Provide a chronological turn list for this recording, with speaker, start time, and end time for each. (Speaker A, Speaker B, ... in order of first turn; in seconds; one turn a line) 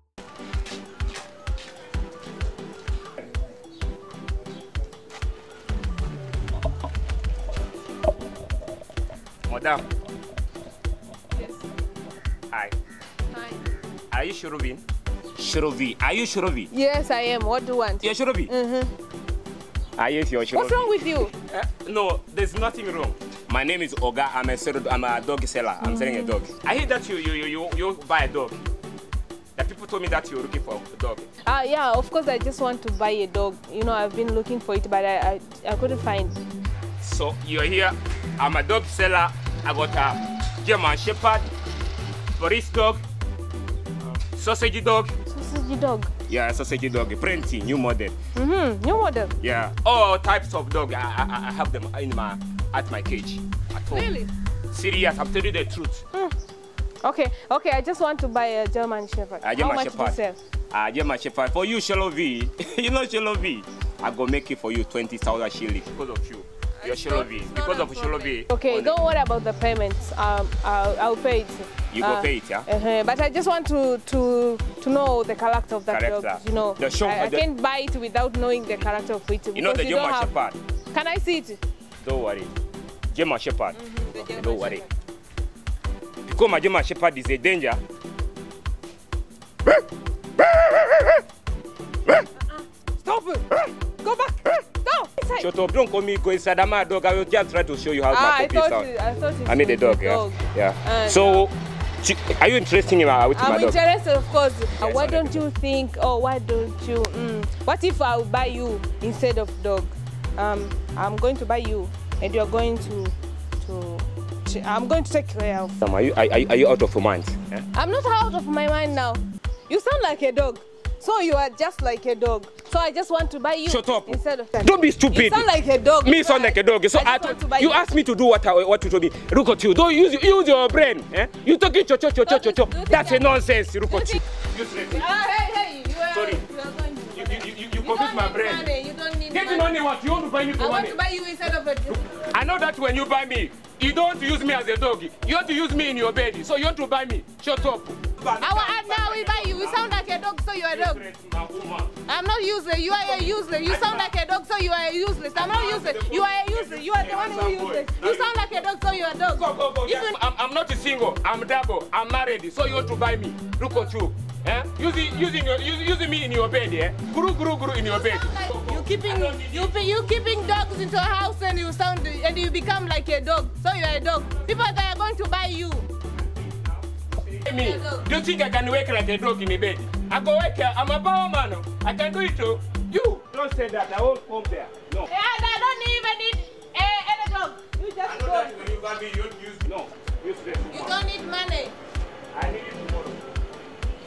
Speaker A: 9.5-9.8
Speaker B: 11.3-11.7
Speaker A: 12.5-12.8
Speaker B: 13.3-13.8
Speaker A: 14.1-14.8
Speaker A: 15.4-16.7
Speaker B: 16.7-18.9
Speaker A: 18.0-18.5
Speaker A: 20.0-20.9
Speaker B: 20.5-21.3
Speaker A: 21.4-28.6
Speaker B: 25.8-26.4
Speaker A: 29.6-31.3
Speaker B: 31.4-36.4
Speaker A: 37.0-41.5
Speaker A: 42.4-43.0
Speaker A: 44.2-45.1
Speaker B: 45.3-46.1
Speaker A: 46.3-48.1
Speaker B: 48.3-49.3
Speaker A: 49.4-54.1
Speaker B: 53.9-54.3
Speaker A: 54.7-56.0
Speaker B: 57.0-60.4
Speaker A: 59.4-60.2
Speaker A: 60.7-69.0
Speaker B: 66.8-81.6
Speaker A: 71.9-72.7
Speaker A: 75.9-77.5
Speaker A: 79.5-80.6
Speaker A: 82.0-82.5
Speaker A: 83.1-84.8
Speaker B: 83.7-84.9
Speaker A: 86.2-87.8
Speaker A: 90.4-91.2
Speaker B: 92.3-95.5
Speaker A: 95.4-98.9
Speaker B: 98.1-101.5
Speaker A: 99.5-103.8
Speaker B: 103.3-115.8
Speaker A: 104.8-105.4
Speaker A: 115.8-117.6
Speaker B: 117.7-127.9
Speaker A: 123.7-125.5
Speaker A: 126.0-135.1
Speaker B: 132.2-133.4
Speaker B: 133.9-134.2
Speaker B: 134.9-139.8
Speaker A: 136.1-136.4
Speaker A: 137.2-138.7
Speaker A: 139.3-141.0
Speaker B: 140.6-142.0
Speaker A: 142.0-150.0
Speaker B: 148.4-151.0
Speaker A: 150.7-151.9
Speaker B: 152.1-160.2
Speaker A: 153.0-154.1
Speaker A: 155.3-158.6
Speaker A: 159.3-170.1
Speaker B: 167.8-175.9
Speaker A: 176.4-185.1
Speaker B: 177.4-178.1
Speaker B: 185.1-188.6
Speaker A: 188.0-191.0
Speaker B: 190.7-191.8
Speaker A: 192.3-193.2